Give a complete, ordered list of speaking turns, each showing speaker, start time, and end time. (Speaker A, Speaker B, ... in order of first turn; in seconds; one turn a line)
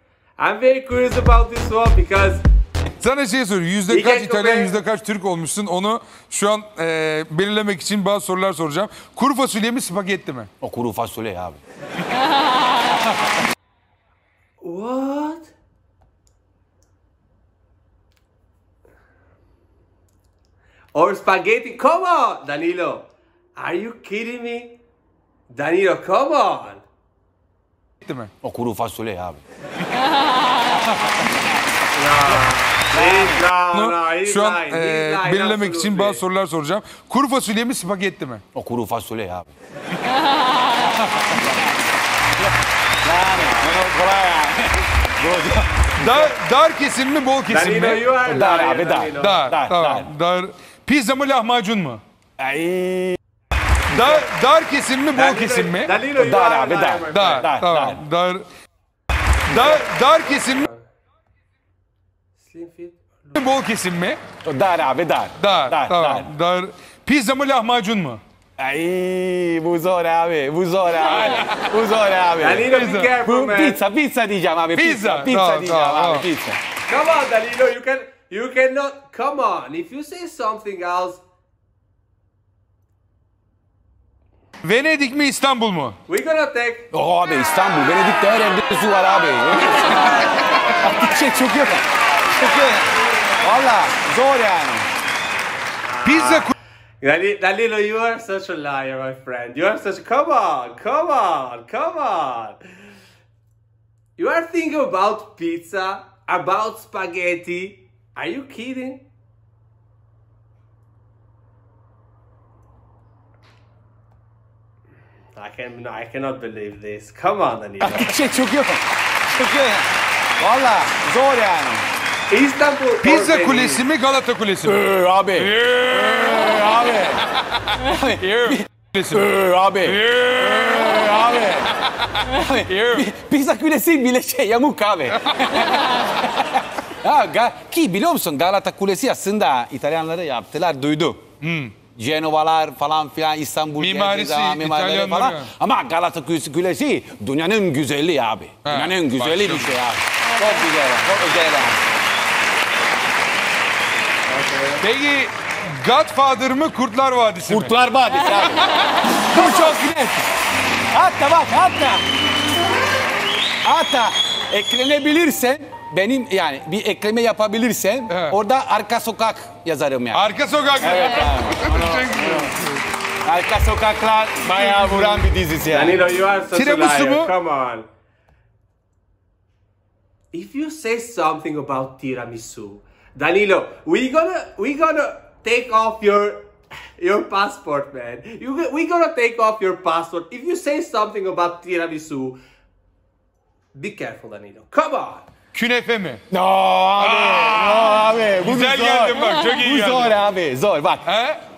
Speaker A: 0.4-2.4
Speaker B: 3.0-10.5
Speaker A: 3.9-4.8
Speaker C: 10.6-11.6
Speaker A: 14.6-15.5
Speaker A: 20.9-24.8
Speaker A: 25.5-26.8
Speaker B: 28.0-28.3
Speaker C: 28.4-29.4
Speaker A: 31.9-36.2
Speaker C: 32.9-33.4
Speaker B: 33.7-38.4
Speaker C: 38.5-39.5
Speaker C: 41.1-41.6
Speaker C: 43.0-46.3
Speaker B: 46.0-48.2
Speaker A: 47.5-49.4
Speaker C: 48.3-50.1
Speaker B: 49.2-52.0
Speaker C: 52.4-53.2
Speaker B: 53.9-56.0
Speaker A: 55.1-57.5
Speaker C: 56.2-58.0
Speaker B: 57.1-58.5
Speaker B: 59.5-60.7
Speaker A: 59.5-59.9
Speaker A: 60.4-60.9
Speaker A: 62.4-63.4
Speaker B: 63.4-64.2
Speaker C: 64.4-66.3
Speaker B: 65.4-68.2
Speaker C: 68.6-76.6
Speaker A: 72.4-73.8
Speaker B: 72.7-73.2
Speaker B: 74.7-76.3
Speaker A: 76.9-81.2
Speaker B: 84.6-86.0
Speaker A: 86.1-86.9
Speaker C: 86.9-94.9
Speaker A: 95.8-102.6
Speaker B: 96.0-96.5
Speaker A: 104.2-109.0
Speaker A: 115.3-118.2
Speaker C: 117.8-121.8
Speaker A: 122.3-123.8
Speaker B: 123.0-124.8
Speaker C: 124.6-127.2
Speaker B: 125.3-126.6
Speaker B: 127.8-129.3
Speaker C: 127.8-141.2
Speaker B: 129.8-131.1
Speaker B: 132.6-133.1
Speaker B: 141.4-141.8
Speaker C: 141.9-151.9
Speaker B: 143.8-145.5
Speaker B: 148.7-149.8
Speaker A: 154.3-154.8
Speaker B: 154.8-157.7
Speaker C: 157.5-158.7
Speaker B: 158.3-160.3
Speaker C: 159.3-159.8
Speaker C: 160.9-162.1
Speaker C: 163.6-170.2
Speaker B: 168.1-168.4
Speaker B: 170.1-172.8
Speaker C: 170.8-172.6
Speaker C: 173.2-176.0
Speaker B: 174.5-175.2
Speaker A: 175.7-177.9
Speaker B: 176.5-177.3
Speaker A: 180.3-192.4
Speaker A: 193.8-195.3
Speaker B: 195.5-196.2
Speaker C: 196.3-201.1
Speaker B: 197.0-200.2
Speaker B: 201.1-201.4